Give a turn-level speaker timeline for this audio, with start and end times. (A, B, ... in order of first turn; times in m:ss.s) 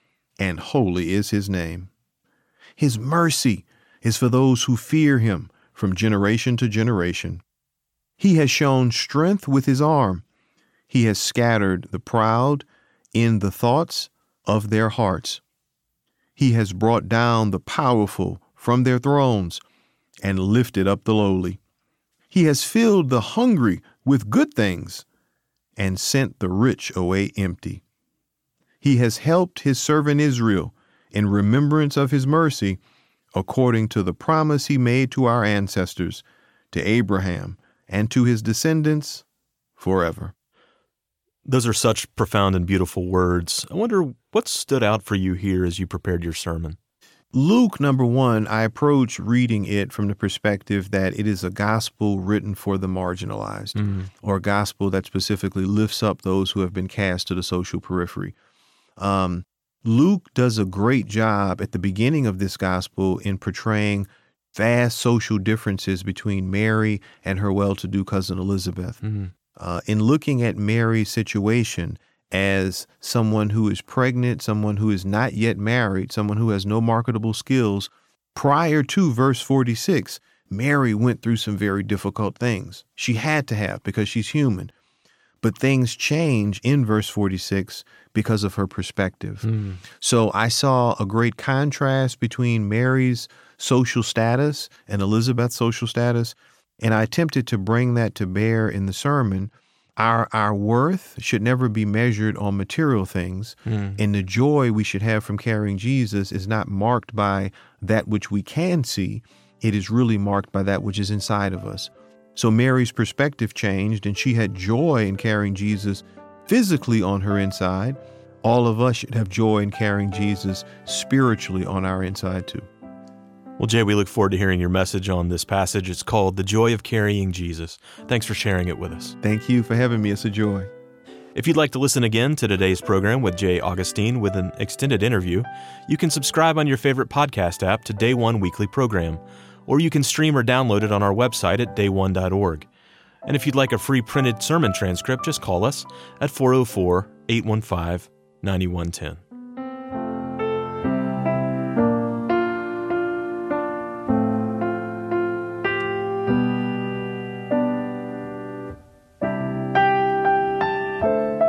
0:00.4-0:01.9 A
0:02.8-0:07.4 A
0:08.2-0:10.2 A
0:10.9-0:15.4 A
0:16.4-0:19.6 A
0:20.2-0:21.6 A
0:22.3-0:25.0 A
0:25.8-0:27.8 A
0:28.8-0:32.8 A
0:33.4-0:39.2 A
0:39.8-0:40.3 A
0:41.4-0:46.8 B
0:47.3-0:58.3 A
0:53.8-0:54.1 B
0:59.0-1:09.0 A
1:09.0-1:09.3 B
1:09.6-1:24.7 A
1:25.4-2:02.7 A
1:29.4-1:29.8 B
1:43.7-1:44.0 B
2:03.6-2:09.2 B
2:09.2-2:10.7 A
2:11.4-2:22.7 B
2:23.2-2:29.2 B